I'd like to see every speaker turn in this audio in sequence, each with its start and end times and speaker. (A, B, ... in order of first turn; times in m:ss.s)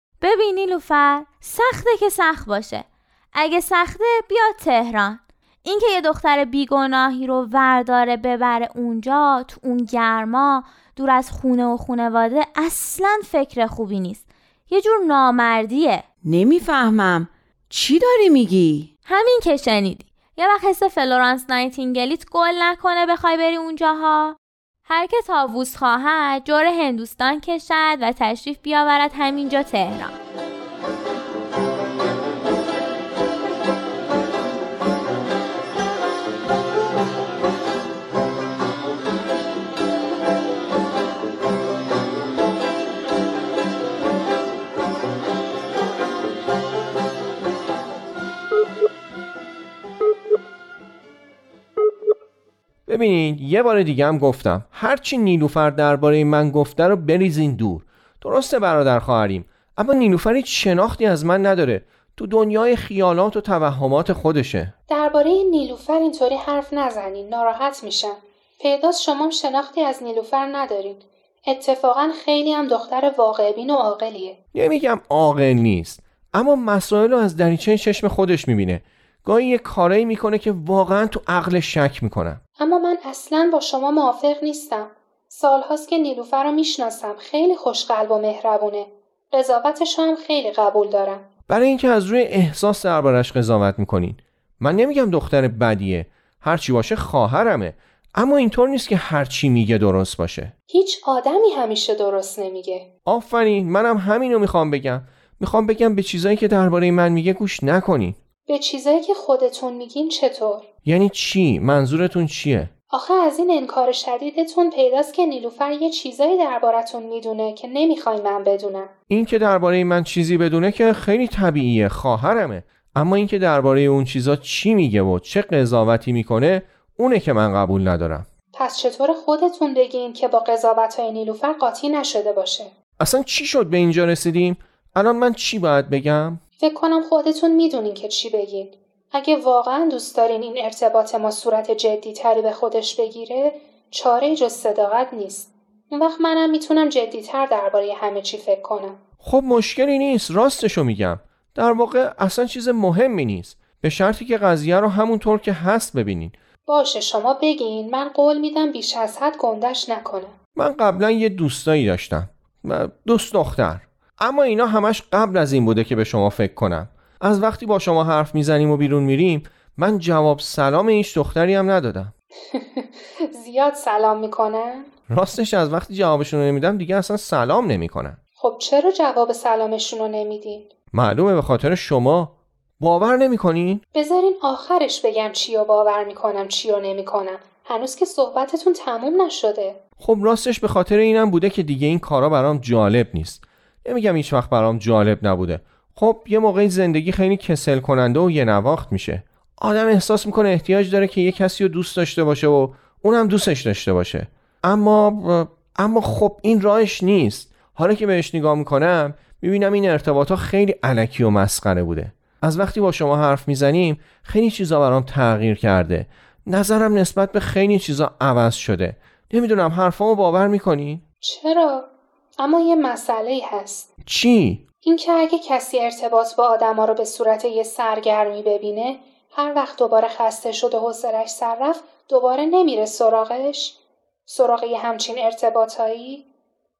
0:00.2-0:16.0 A
0:16.2-0:18.9 B
0:19.0-0:24.4 A
0:24.9-0:30.1 A
0:52.9-1:04.7 C
1:04.9-1:14.4 D
1:14.5-1:22.4 C
1:22.6-1:31.3 D
1:31.5-1:40.5 C
1:40.7-1:42.9 D
1:43.1-1:48.2 C
1:48.5-1:50.6 D
1:50.8-1:52.7 C
1:52.9-1:58.9 D
1:59.1-2:08.3 C
2:08.5-2:12.7 D
2:13.0-2:16.4 C
2:16.6-2:29.0 D
2:29.2-2:36.3 C
2:36.7-2:40.3 D
2:40.6-2:52.1 C
2:52.5-2:54.9 D
2:55.1-2:58.2 C
2:58.4-3:00.7 D
3:00.9-3:03.8 C
3:04.0-3:09.8 D
3:10.0-3:41.0 C
3:41.2-3:41.9 D
3:42.4-3:43.9 D
3:44.1-3:44.6 C
3:44.8-3:53.8 D
3:54.3-3:56.2 D